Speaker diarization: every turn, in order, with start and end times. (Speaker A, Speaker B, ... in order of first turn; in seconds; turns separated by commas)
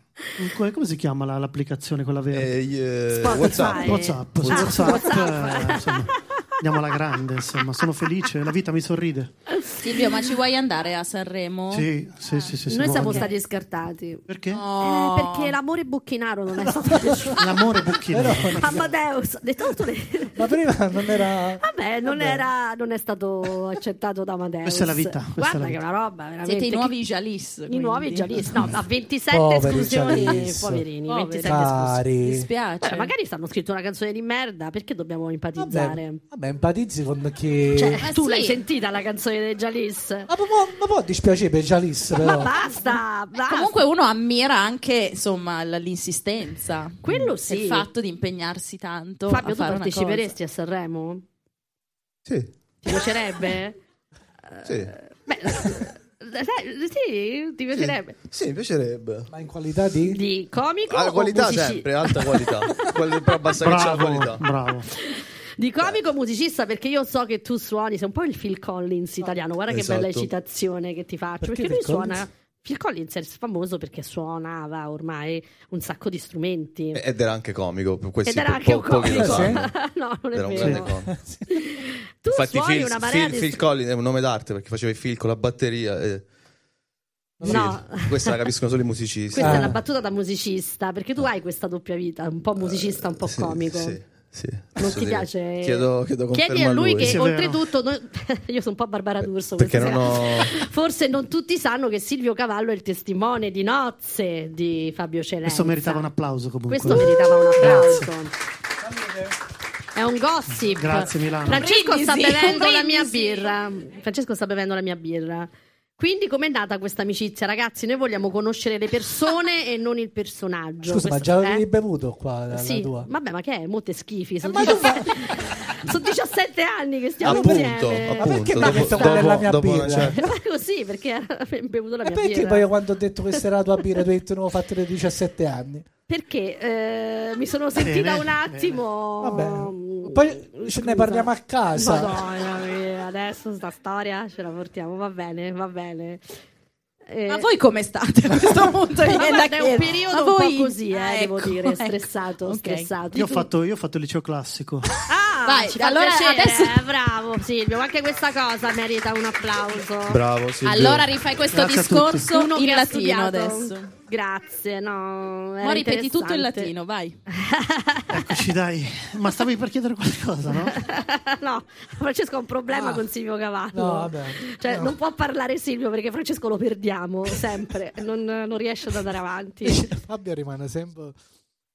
Speaker A: 0.4-2.5, Speaker B: 2.3-5.0, Speaker C: 3.1-6.2, Speaker A: 3.6-9.3, Speaker D: 9.8-13.3, Speaker A: 11.7-13.3, Speaker C: 12.7-14.2, Speaker A: 14.3-14.6, Speaker D: 14.5-15.6, Speaker C: 14.8-17.5, Speaker E: 16.7-17.3, Speaker A: 17.3-18.7, Speaker E: 18.1-18.9, Speaker C: 18.6-20.5, Speaker E: 20.4-22.4, Speaker C: 21.6-26.9, Speaker A: 24.6-25.8, Speaker D: 26.4-28.3, Speaker C: 27.7-32.0, Speaker E: 29.3-30.9, Speaker D: 30.1-30.4, Speaker D: 31.1-33.1, Speaker E: 31.4-32.5, Speaker C: 32.8-36.2, Speaker E: 35.6-38.0, Speaker C: 37.7-40.3, Speaker D: 38.0-38.6, Speaker E: 40.3-42.5, Speaker C: 42.1-43.8, Speaker D: 43.5-50.3, Speaker C: 47.0-47.9, Speaker C: 49.3-51.2, Speaker B: 52.3-52.5, Speaker C: 52.8-53.8, Speaker C: 54.5-58.1, Speaker B: 54.6-55.0, Speaker B: 57.8-59.3, Speaker E: 59.3-60.2, Speaker C: 60.1-62.7, Speaker B: 60.9-64.4, Speaker A: 63.6-64.9, Speaker C: 64.9-77.0, Speaker B: 69.7-70.3, Speaker E: 71.4-72.3, Speaker B: 76.9-79.8, Speaker C: 78.2-80.9, Speaker E: 79.1-79.6, Speaker B: 80.3-81.1, Speaker A: 80.5-80.8, Speaker E: 80.9-81.6, Speaker C: 81.5-83.6, Speaker B: 82.3-86.3, Speaker E: 87.4-87.8, Speaker B: 87.4-89.8, Speaker C: 87.4-88.4, Speaker C: 89.3-94.0, Speaker E: 89.4-89.8, Speaker B: 92.6-97.2, Speaker C: 94.8-106.0, Speaker A: 97.0-97.6, Speaker B: 99.6-100.5, Speaker A: 105.5-108.1, Speaker C: 106.7-108.3, Speaker C: 110.0-121.7, Speaker A: 110.7-111.7, Speaker D: 111.5-113.5, Speaker E: 120.8-123.1, Speaker C: 122.5-129.5, Speaker E: 124.4-125.7, Speaker B: 127.2-130.2, Speaker E: 127.3-130.2, Speaker C: 130.0-132.7, Speaker E: 132.0-135.9, Speaker C: 133.3-134.0, Speaker C: 136.1-146.2, Speaker A: 137.8-138.8, Speaker E: 139.2-142.2, Speaker C: 147.1-147.5, Speaker D: 147.3-152.9, Speaker C: 149.1-153.5, Speaker A: 153.1-154.9, Speaker C: 155.1-160.2, Speaker D: 155.4-156.8, Speaker B: 160.1-161.1, Speaker D: 160.6-163.9, Speaker A: 161.5-162.3, Speaker C: 162.3-166.7, Speaker D: 165.6-167.2, Speaker C: 167.3-168.4, Speaker A: 168.1-170.8, Speaker C: 170.7-179.9, Speaker E: 172.7-173.1, Speaker E: 173.7-175.0, Speaker E: 179.6-181.2